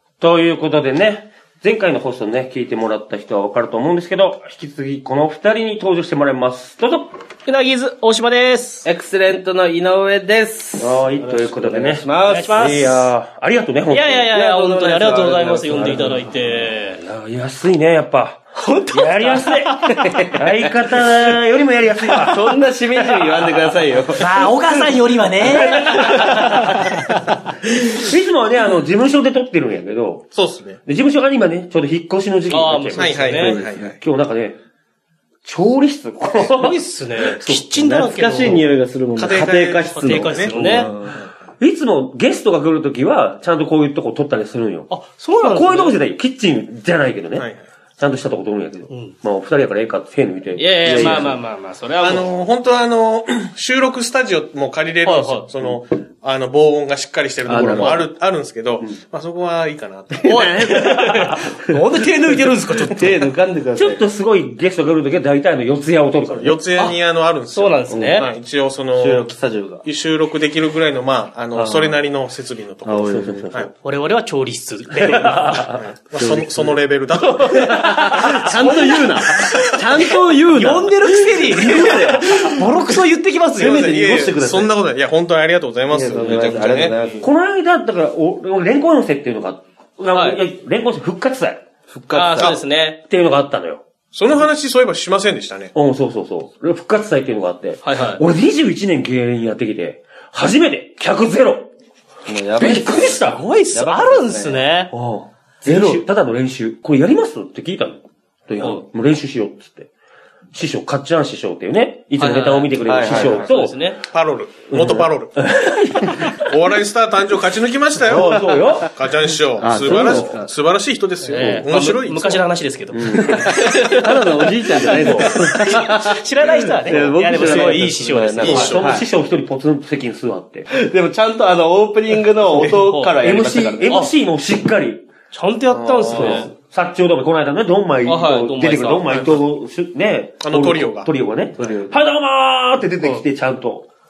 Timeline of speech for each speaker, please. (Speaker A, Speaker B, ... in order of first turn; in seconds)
Speaker A: 0.2-7.1, 10.8-14.3, 15.7-19.7, 20.3-22.5, 27.9-30.3, 30.8-34.6, 35.4-38.6, 40.5-40.9, 41.6-47.5, 48.0-51.4, 57.6-58.0, 63.7-66.6, 67.9-68.2, 73.0-73.7, 75.1-75.6, 78.0-78.8, 87.2-91.6, 93.0-93.8, 95.7-101.7, 102.5-103.4, 104.9-109.9, 110.5-113.8, 114.7-116.4, 118.0-118.9, 119.7-120.4, 121.3-121.7, 122.9-123.5, 124.8-125.4, 128.4-130.7, 132.5-135.1, 136.1-143.9
Speaker B: 7.5-8.8, 12.3-13.0, 13.9-17.0, 18.5-20.0, 24.1-27.3, 32.5-33.5, 36.4-38.6, 39.3-40.9, 44.9-46.0, 48.9-49.1, 50.5-52.2, 55.0-55.5, 60.2-63.2, 67.5-68.3, 73.8-75.7, 77.3-79.5, 80.5-83.8, 86.2-87.2, 90.1-90.4, 92.1-93.0, 97.8-98.2, 103.2-104.9, 105.6-106.0, 108.6-108.8, 113.1-114.0, 121.2-128.8, 132.6-133.2, 133.9-134.1, 135.3-136.5, 138.0-139.4
Speaker C: 8.8-12.9, 14.3-16.4, 19.9-20.7, 22.1-26.8, 33.3-34.0, 38.0-41.1, 50.8-51.4, 57.5-58.1, 60.2-61.5, 63.0-64.0, 68.9-69.8, 71.5-72.0, 72.8-73.5, 76.1-76.8, 77.8-82.7, 83.6-84.7, 85.9-87.3, 91.9-92.6, 102.3-104.7, 112.2-113.5, 119.6-120.5, 123.1-129.1, 130.7-134.0, 141.6-141.9
Speaker D: 30.3-30.8, 32.9-34.0, 39.1-41.3, 47.4-47.6, 52.0-61.4, 66.4-69.3, 69.8-73.7, 75.7-77.9, 83.6-87.0, 94.1-95.7, 114.0-115.3, 116.2-122.5, 128.4-128.8, 135.7-136.4, 140.4-141.1